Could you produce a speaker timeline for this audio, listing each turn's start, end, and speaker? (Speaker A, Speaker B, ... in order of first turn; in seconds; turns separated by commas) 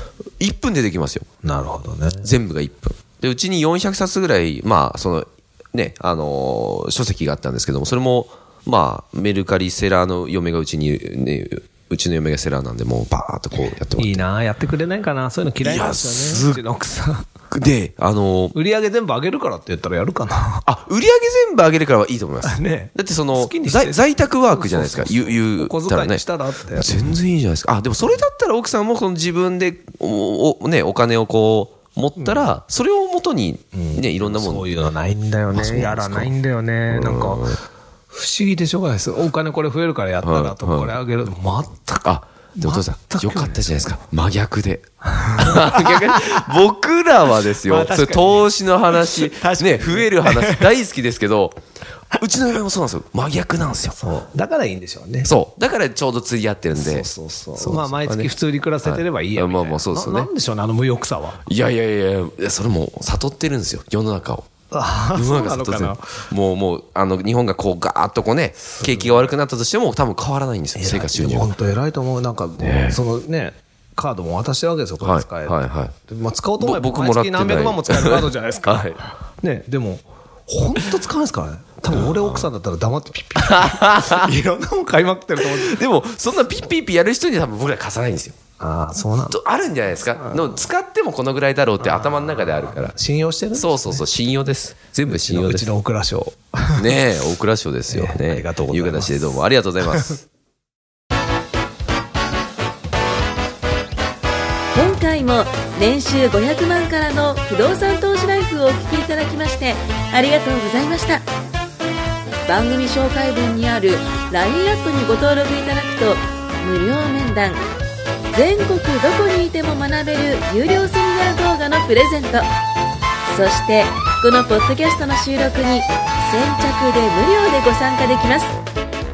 Speaker A: 0.4-1.3, Speaker B: 1.4-2.3, Speaker A: 2.2-14.2, Speaker B: 14.0-17.3, Speaker A: 15.6-16.6, Speaker A: 17.5-18.5, Speaker B: 18.5-20.6, Speaker A: 20.6-26.2, Speaker B: 22.4-27.1, Speaker A: 26.8-34.7, Speaker B: 32.2-32.5, Speaker B: 33.8-37.6, Speaker A: 35.5-36.3, Speaker A: 36.9-37.6, Speaker B: 38.1-43.7, Speaker A: 40.2-41.0, Speaker A: 42.0-51.6, Speaker B: 45.1-46.5, Speaker B: 47.6-50.7, Speaker A: 52.1-54.0, Speaker B: 54.0-55.3, Speaker A: 55.2-58.3, Speaker B: 56.8-61.4, Speaker A: 58.8-60.3, Speaker A: 61.5-64.5, Speaker B: 64.7-66.1, Speaker A: 65.1-71.5, Speaker B: 68.7-69.2, Speaker B: 70.8-85.8, Speaker A: 72.6-73.0, Speaker A: 75.0-75.9, Speaker A: 76.6-79.1, Speaker A: 81.9-82.5, Speaker A: 83.4-84.3, Speaker A: 85.4-88.4, Speaker B: 88.6-89.4, Speaker A: 89.3-93.0, Speaker B: 91.8-94.0, Speaker A: 93.5-95.7, Speaker B: 95.1-96.9, Speaker A: 96.8-100.2, Speaker B: 97.9-100.2, Speaker C: 104.7-111.2, Speaker C: 112.5-117.6, Speaker C: 118.3-122.5, Speaker C: 123.3-128.6